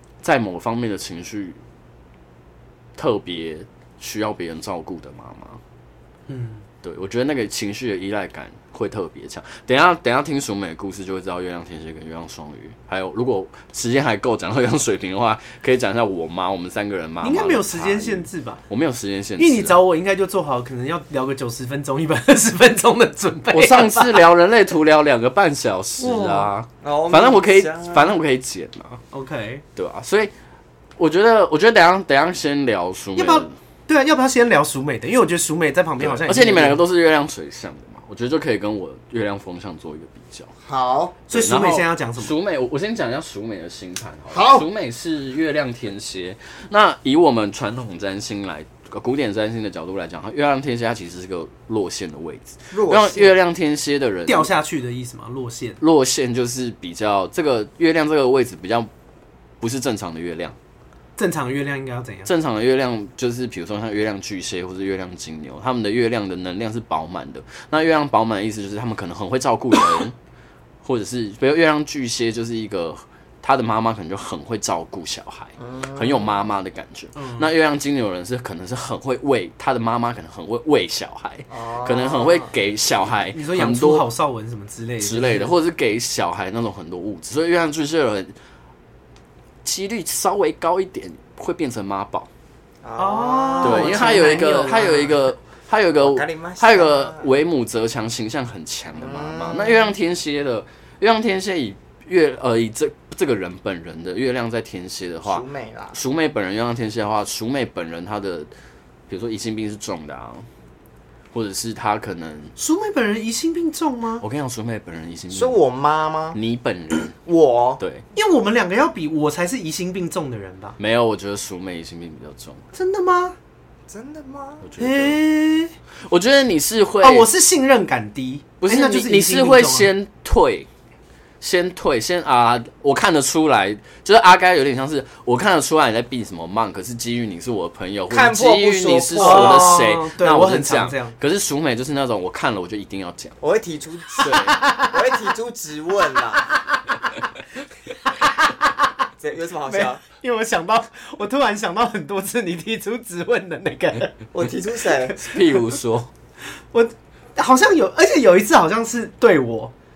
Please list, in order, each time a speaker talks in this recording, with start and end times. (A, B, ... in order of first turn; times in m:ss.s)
0:00.2-0:01.6 A
0:03.0-0:05.6 A
0:06.3-0:06.6 B
0:06.8-0:19.8 A
0:17.2-0:18.6 B
0:19.4-0:24.2 B
0:23.5-0:29.0 A
0:26.0-0:26.5 B
0:26.8-0:28.1 C
0:29.1-0:29.6 B
0:29.8-0:30.3 A
0:31.0-0:33.6 A
0:33.2-0:36.8 B
0:36.0-0:40.5 A
0:40.6-0:41.2 C
0:41.3-0:42.3 B
0:41.3-0:54.5 A
0:44.3-0:44.7 C
0:52.7-0:53.3 C
0:54.3-0:55.8 B
0:55.8-0:58.9 A
0:59.6-1:00.6 A
1:01.2-1:02.3 B
1:02.3-1:10.2 A
1:10.8-1:24.1 A
1:15.6-1:16.4 C
1:17.2-1:17.5 B
1:21.5-1:22.5 C
1:23.3-1:25.5 B
1:25.0-1:28.3 A
1:29.6-1:32.3 A
1:32.8-1:35.2 C
1:33.0-1:35.1 B
1:33.6-1:48.5 A
1:36.0-1:37.3 C
1:39.0-1:39.9 C
1:45.3-1:46.0 C
1:49.1-1:50.5 A
1:51.3-1:52.6 A
1:52.6-1:54.2 B
1:54.2-1:55.6 A
1:55.3-1:56.4 C
1:56.3-1:57.2 A
1:57.3-1:57.8 C
1:57.8-1:58.0 A
1:58.1-2:00.8 B
2:00.8-2:02.7 A
2:02.7-2:03.4 B
2:03.9-2:04.6 C
2:04.6-2:05.2 A
2:04.8-2:05.7 B
2:06.0-2:07.3 A
2:07.0-2:09.9 B
2:08.6-2:10.7 A
2:11.4-2:23.4 A
2:18.1-2:19.8 C
2:19.2-2:21.2 B
2:23.4-2:26.5 C
2:24.2-2:24.6 A
2:24.2-2:25.1 B
2:26.4-2:27.2 B
2:28.1-2:29.0 B
2:29.2-2:30.0 C
2:29.7-2:34.2 B
2:34.3-2:35.2 C
2:35.1-2:35.6 B
2:35.2-2:36.1 A
2:36.7-2:39.7 B